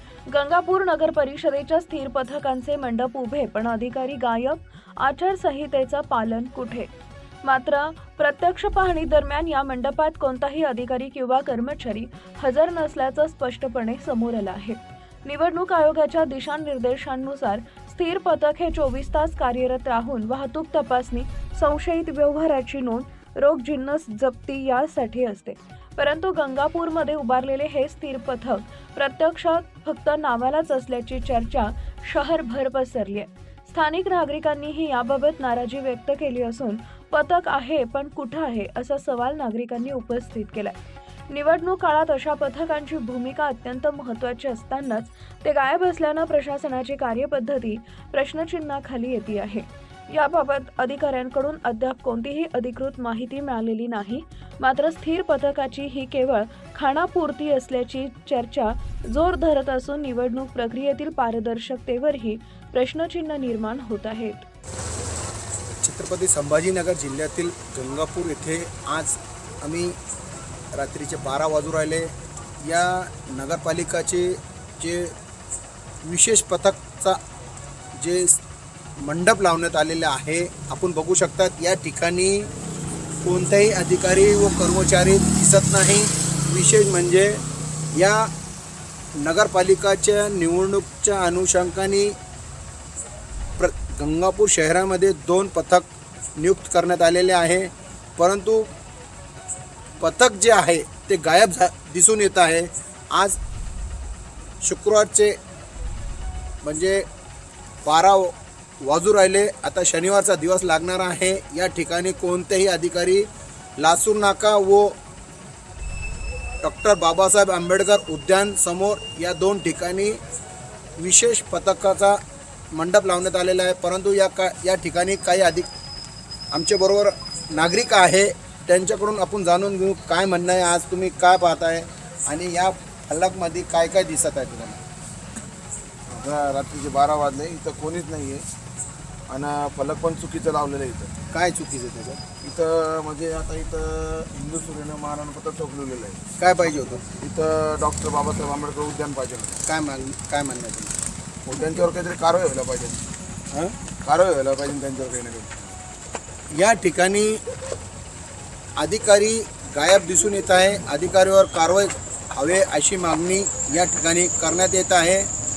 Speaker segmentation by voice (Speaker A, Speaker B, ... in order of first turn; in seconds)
Speaker A: 0.3-6.9, 7.4-40.7, 41.3-64.5
Speaker B: 65.8-70.0, 70.7-75.1, 76.0-77.2, 78.0-78.4, 79.0-82.5, 83.2-87.4, 87.9-88.3, 89.2-92.2, 93.6-98.7, 100.0-103.4, 104.6-105.3, 106.6-107.0, 107.8-113.3, 113.8-115.0, 116.6-120.2, 121.0-125.7, 126.5-134.8, 141.3-142.2, 146.4-147.1, 149.6-150.9, 156.5-157.4, 158.8-165.3
Speaker C: 136.1-138.4, 139.3-141.1, 142.4-146.2, 147.1-149.6, 151.4-153.0, 154.0-155.8